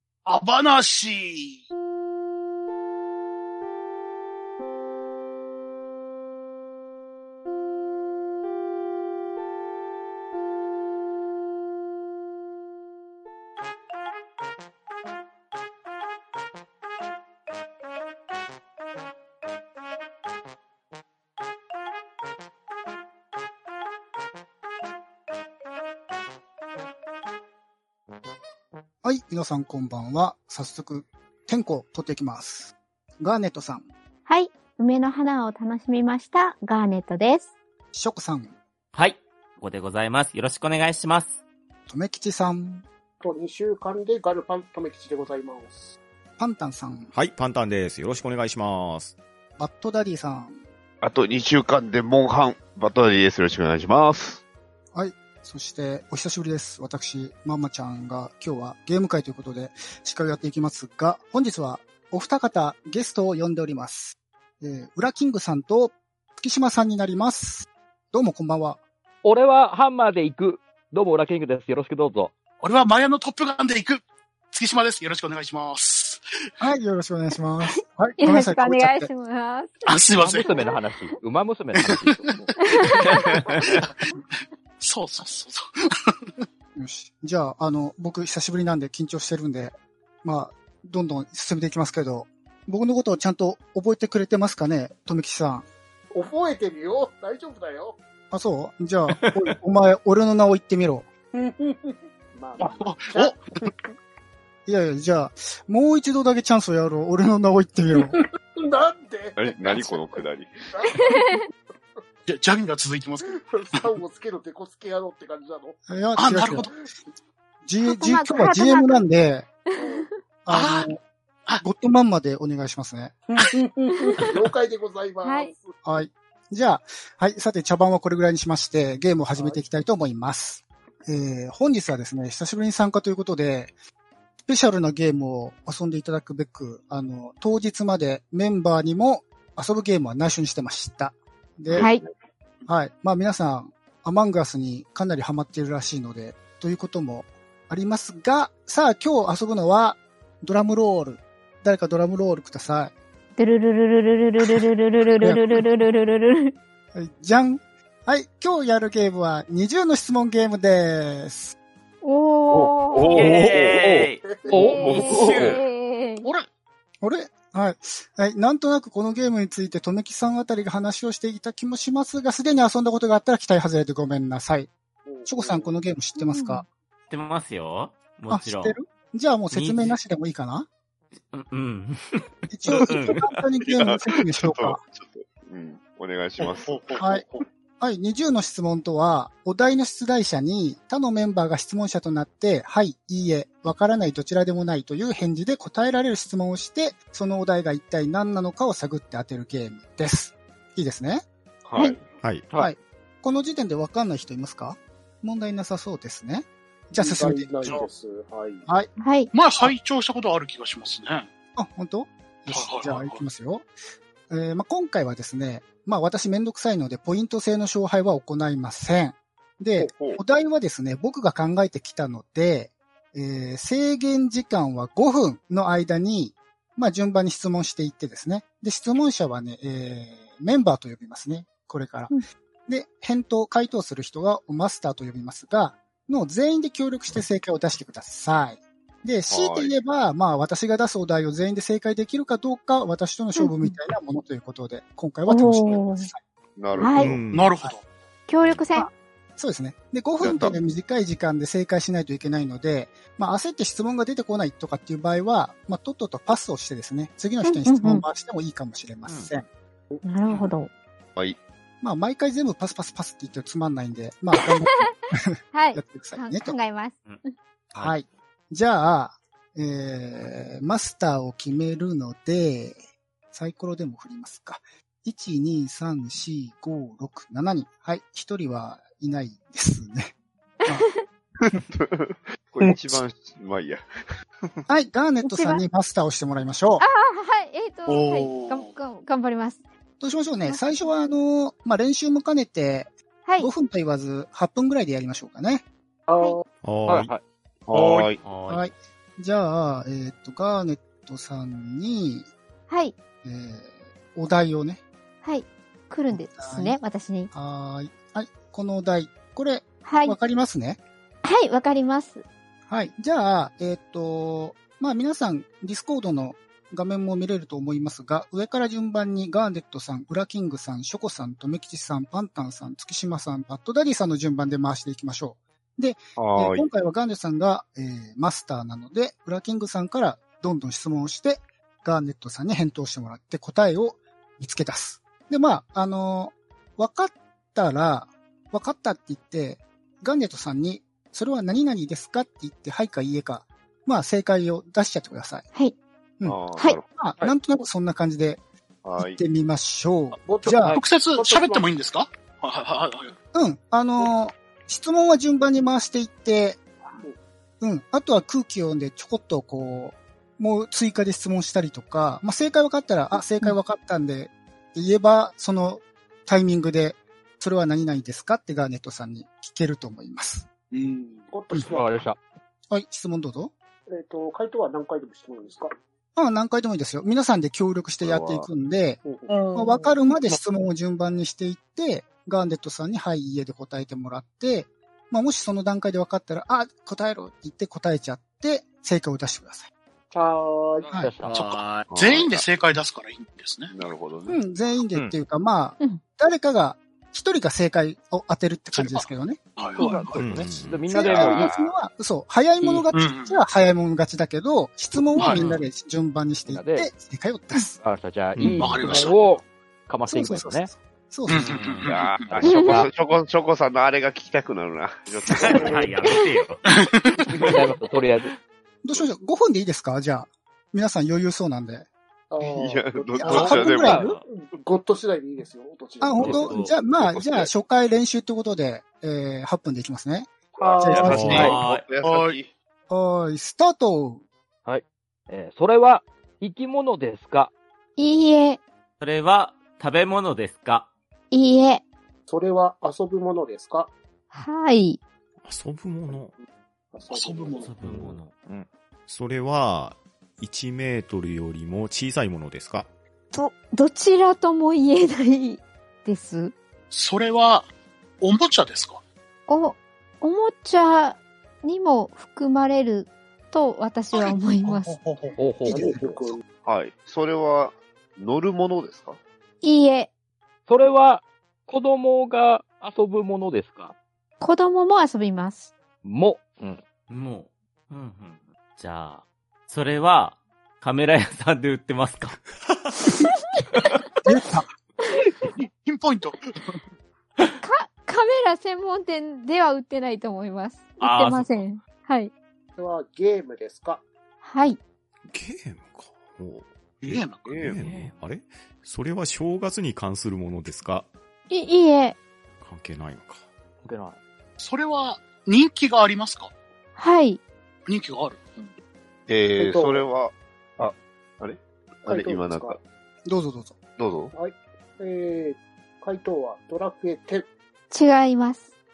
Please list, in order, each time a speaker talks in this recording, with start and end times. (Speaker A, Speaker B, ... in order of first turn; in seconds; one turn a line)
Speaker A: 0.3-1.6
Speaker B: 29.0-33.9
Speaker C: 34.3-37.5
Speaker B: 37.9-38.5
Speaker D: 38.9-41.4
Speaker B: 41.9-42.9
Speaker E: 43.2-45.9
Speaker B: 46.4-47.1
Speaker F: 47.1-49.1
Speaker B: 49.6-50.6
Speaker G: 51.0-54.4
Speaker B: 54.9-68.8
Speaker H: 69.2-72.3
Speaker A: 72.6-76.2
Speaker B: 76.6-79.1
Speaker C: 77.7-80.0
Speaker A: 79.8-80.7
Speaker H: 80.2-82.5
Speaker A: 81.7-86.1
Speaker C: 82.6-83.4
Speaker B: 86.8-95.7
Speaker E: 96.1-98.0
Speaker B: 98.3-101.1
Speaker E: 101.3-103.9
Speaker A: 102.6-103.7
Speaker B: 104.7-108.2
Speaker E: 108.0-111.4
Speaker G: 109.4-110.5
Speaker C: 110.8-111.5
Speaker A: 112.3-113.9
Speaker E: 113.3-115.8
Speaker B: 115.9-116.7
Speaker A: 116.2-116.7
Speaker B: 117.7-119.5
Speaker C: 117.9-119.0
Speaker C: 119.7-120.1
Speaker E: 119.8-120.0
Speaker B: 120.5-121.0
Speaker A: 120.5-120.9
Speaker B: 121.6-123.2
Speaker E: 123.3-125.7
Speaker C: 124.1-124.3
Speaker C: 125.2-125.5
Speaker B: 125.8-133.7
Speaker E: 129.4-129.6
Speaker B: 134.5-141.9
Speaker G: 141.7-142.1
Speaker C: 141.7-142.0
Speaker B: 142.7-152.9
Speaker C: 153.4-156.5
Speaker B: 155.2-155.6
Speaker B: 156.9-161.6
Speaker C: 162.0-163.4
Speaker G: 162.5-164.1
Speaker D: 163.1-164.2
Speaker E: 164.2-165.0
Speaker H: 164.5-164.8
Speaker C: 164.5-166.3
Speaker G: 164.7-165.6
Speaker D: 164.9-165.6
Speaker A: 166.2-166.5
Speaker B: 167.0-174.7
Speaker E: 175.1-175.7
Speaker B: 175.3-176.7
Speaker C: 176.2-176.7
Speaker D: 177.1-178.8
Speaker B: 178.3-180.7
Speaker D: 179.5-180.0
Speaker D: 181.3-183.4
Speaker B: 182.5-184.8
Speaker G: 183.7-187.1
Speaker A: 186.4-187.4
Speaker B: 187.0-187.2
Speaker B: 187.8-201.9
Speaker F: 202.2-202.5
Speaker B: 202.6-207.8
Speaker E: 207.0-208.7
Speaker C: 209.0-209.3
Speaker A: 209.3-211.3
Speaker B: 211.6-213.7
Speaker A: 212.5-213.2
Speaker B: 214.3-232.1
Speaker E: 219.8-220.2
Speaker B: 232.7-246.2
Speaker G: 239.3-239.7
Speaker C: 243.4-243.8
Speaker C: 245.3-246.1
Speaker G: 246.6-247.2
Speaker C: 246.7-247.2
Speaker F: 247.0-247.6
Speaker A: 247.3-247.9
Speaker C: 248.3-248.9
Speaker B: 248.7-259.5
Speaker G: 250.2-250.6
Speaker C: 257.4-258.1
Speaker D: 259.1-259.3
Speaker E: 259.9-260.5
Speaker C: 260.1-260.7
Speaker B: 261.8-266.6
Speaker C: 264.3-264.9
Speaker C: 265.5-267.3
Speaker B: 267.7-272.8
Speaker B: 273.3-280.1
Speaker C: 280.6-281.0
Speaker G: 281.4-283.9
Speaker B: 284.7-286.9
Speaker C: 285.2-285.6
Speaker C: 286.8-289.6
Speaker A: 287.9-288.7
Speaker B: 290.0-295.6
Speaker C: 290.5-290.9
Speaker C: 293.2-293.5
Speaker E: 296.1-296.4
Speaker F: 296.6-297.1
Speaker H: 296.9-297.2
Speaker G: 297.7-298.2
Speaker A: 297.7-298.1
Speaker D: 298.2-298.7
Speaker B: 298.5-302.3
Speaker C: 302.7-303.0
Speaker B: 303.2-304.8
Speaker C: 305.2-307.3
Speaker B: 306.1-306.8
Speaker B: 307.3-310.8
Speaker C: 309.9-310.2
Speaker C: 311.2-312.2
Speaker B: 312.7-345.5
Speaker G: 326.2-326.7
Speaker B: 346.2-348.4
Speaker G: 346.2-346.9
Speaker C: 346.5-346.8
Speaker G: 348.8-349.2
Speaker B: 349.0-350.8
Speaker E: 350.2-351.7
Speaker A: 350.6-353.1
Speaker B: 353.3-356.6
Speaker E: 356.9-357.2
Speaker B: 357.6-370.5
Speaker A: 370.7-371.3
Speaker E: 371.3-372.1
Speaker H: 371.7-372.2
Speaker B: 372.7-373.5
Speaker E: 373.9-375.8
Speaker B: 376.2-379.0
Speaker G: 378.0-378.5
Speaker E: 379.0-379.9
Speaker A: 379.3-379.6
Speaker B: 379.6-389.7
Speaker E: 390.1-390.9
Speaker B: 390.9-391.1
Speaker H: 390.9-391.5
Speaker A: 391.3-393.7
Speaker G: 391.9-392.5
Speaker G: 393.7-394.4
Speaker B: 394.3-399.6
Speaker A: 398.7-400.4
Speaker H: 399.8-401.5
Speaker F: 400.1-400.9
Speaker B: 400.9-407.8
Speaker G: 401.0-401.8
Speaker H: 402.6-402.9
Speaker A: 402.9-403.4
Speaker A: 405.2-405.4
Speaker H: 406.5-406.9
Speaker H: 407.8-410.7
Speaker F: 408.4-408.9
Speaker A: 408.5-409.2
Speaker B: 410.1-411.7
Speaker A: 411.3-412.3
Speaker G: 411.8-415.9
Speaker H: 412.3-412.9
Speaker C: 412.4-412.9
Speaker D: 415.3-416.6
Speaker E: 415.4-415.9
Speaker C: 416.0-416.3
Speaker A: 416.6-417.4
Speaker H: 417.4-418.3
Speaker B: 418.8-421.9
Speaker E: 422.3-426.6
Speaker G: 422.5-424.1
Speaker B: 423.2-424.2
Speaker H: 423.9-424.1
Speaker B: 426.0-431.6
Speaker H: 426.2-426.7
Speaker G: 426.8-427.5
Speaker G: 430.6-432.5
Speaker E: 430.6-431.6
Speaker F: 431.1-431.5
Speaker D: 431.1-431.9
Speaker A: 432.0-432.4
Speaker B: 432.9-434.2
Speaker H: 434.6-437.5
Speaker C: 438.0-438.6
Speaker D: 439.0-440.9
Speaker C: 441.3-441.8
Speaker E: 442.3-443.9
Speaker C: 444.3-445.0
Speaker F: 445.4-446.3
Speaker E: 446.9-447.7
Speaker A: 447.1-447.7
Speaker D: 447.6-448.3
Speaker F: 447.8-448.2
Speaker H: 447.9-448.7
Speaker F: 449.1-452.9
Speaker C: 453.3-456.5
Speaker A: 456.9-457.7
Speaker A: 458.2-459.0
Speaker C: 459.5-465.0
Speaker A: 464.1-465.4
Speaker H: 465.4-466.0
Speaker B: 465.6-466.4
Speaker E: 465.7-466.4
Speaker G: 466.6-469.2
Speaker C: 469.6-470.1
Speaker H: 470.7-473.9
Speaker C: 474.4-475.7
Speaker H: 476.0-476.8
Speaker D: 477.1-482.4
Speaker B: 484.3-484.7
Speaker A: 485.6-486.5
Speaker C: 487.6-492.3
Speaker D: 491.0-491.6
Speaker E: 492.8-494.0
Speaker C: 494.4-494.8
Speaker F: 495.3-501.1
Speaker A: 497.0-497.5
Speaker G: 497.5-497.8
Speaker D: 497.9-498.1
Speaker C: 501.5-502.2
Speaker F: 502.6-503.5
Speaker H: 503.8-504.2
Speaker A: 504.6-506.5
Speaker C: 507.0-507.4
Speaker A: 507.9-508.7
Speaker G: 509.3-512.8
Speaker E: 509.6-510.1
Speaker E: 512.0-512.8
Speaker B: 513.2-513.8
Speaker G: 514.0-514.3
Speaker E: 514.3-517.5
Speaker C: 517.9-518.7